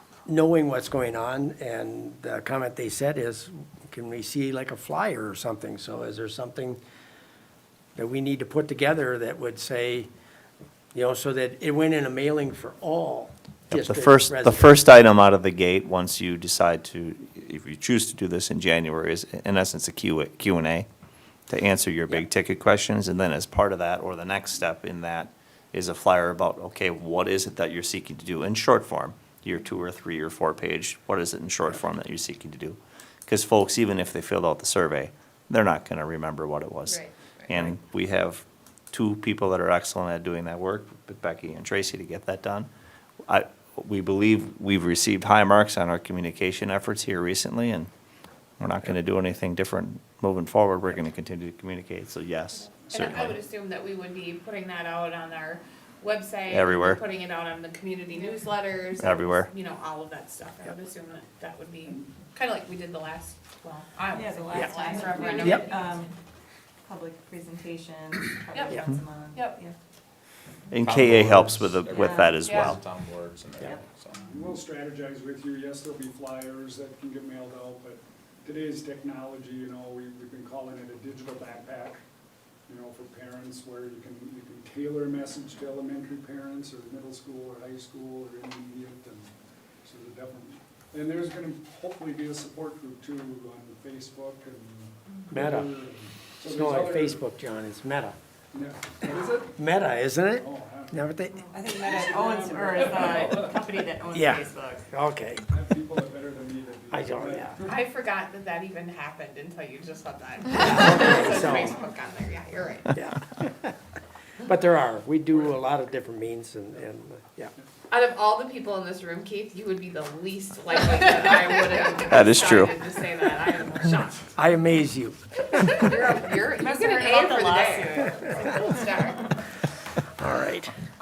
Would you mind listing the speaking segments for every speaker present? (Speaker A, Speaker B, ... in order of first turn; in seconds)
Speaker A: 0.2-6.8, 8.0-10.1, 10.9-14.7, 95.3-95.7, 96.4-98.2, 99.6-101.5, 104.1-105.4, 106.9-107.6, 110.6-111.7, 112.9-113.7, 114.4-117.5, 124.3-125.9, 130.2-130.7
Speaker B: 13.7-20.9, 21.5-42.7, 43.3-47.9, 48.6-53.4, 56.5-57.0, 59.0-59.5, 70.7-72.8, 122.1-122.7
Speaker C: 52.8-66.0, 68.5-69.6, 72.4-72.7, 107.6-113.0, 117.9-124.3, 125.5-129.3
Speaker D: 64.1-66.1, 66.8-69.7, 71.9-72.3, 101.5-104.8, 126.4-128.8
Speaker E: 70.8-74.3
Speaker F: 74.3-82.0, 82.7-89.3, 89.8-97.2, 98.5-99.6, 100.3-101.1, 101.7-103.8, 105.5-107.9